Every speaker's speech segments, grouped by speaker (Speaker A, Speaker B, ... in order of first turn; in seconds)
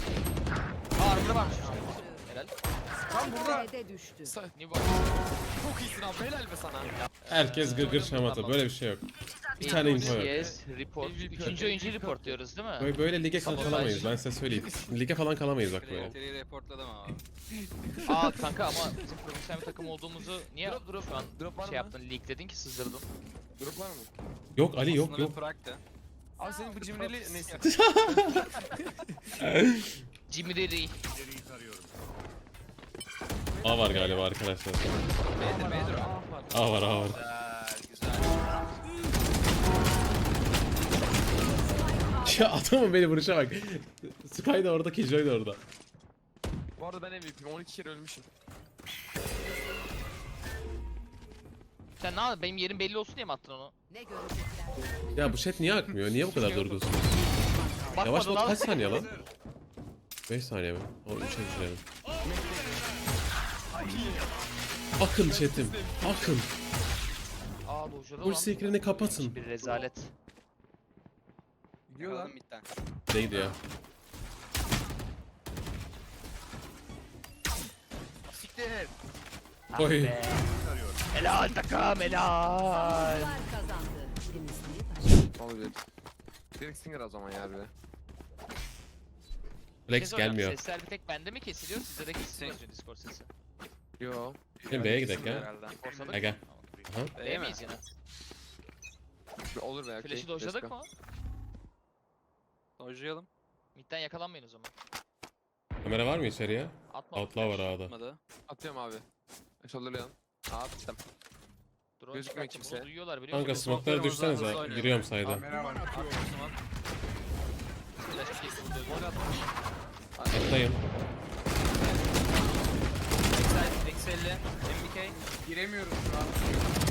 Speaker A: 0.9-2.5, 4.5-5.0, 7.0-8.6, 9.6-12.9, 13.4-14.1, 18.1-23.1, 30.3-31.0, 52.0-53.7, 57.9-58.8, 67.6-70.1, 79.7-80.5, 81.1-83.4, 89.9-93.3, 95.8-97.8, 100.0-100.9, 103.7-104.7, 106.9-107.7, 112.0-115.0, 118.0-119.1
Speaker B: 1.2-2.3, 3.1-4.4, 26.4-26.8, 41.4-42.7, 53.9-55.0, 56.4-58.4, 82.5-85.3
Speaker C: 3.1-3.7, 4.2-4.5, 5.5-6.9, 9.6-12.4, 13.4-15.0, 17.5-19.0, 20.6-21.9, 23.6-24.1, 26.4-29.4, 33.5-34.2, 35.4-37.1, 46.8-48.3, 56.0-56.8, 62.2-63.0, 63.7-64.3, 65.1-66.4, 85.4-85.8, 86.6-87.7, 94.0-95.5, 99.5-100.7, 108.5-109.0, 109.6-111.0, 112.1-112.9, 118.8-119.3, 120.2-120.6
Speaker D: 3.1-3.7, 71.9-72.3, 115.2-115.9, 125.0-126.5
Speaker E: 7.3-10.5, 12.8-16.1, 24.6-25.4, 27.6-28.5, 29.4-30.0, 33.6-34.9, 36.5-37.2, 42.2-45.6, 55.1-57.1, 58.0-59.1, 60.3-61.8, 65.0-66.5, 68.2-69.3, 73.1-73.6, 79.8-80.2, 89.9-90.6, 94.7-95.5, 96.1-97.1, 105.8-107.9, 113.3-115.5, 120.3-120.8
Speaker F: 15.8-17.2, 24.9-25.8, 26.9-27.7, 35.3-36.1, 37.1-38.5, 72.0-72.7, 78.3-78.9, 92.3-92.6, 94.7-96.2, 97.2-97.6, 102.8-103.3, 107.8-108.2, 113.4-116.5, 118.1-119.0, 121.7-122.5, 123.3-125.2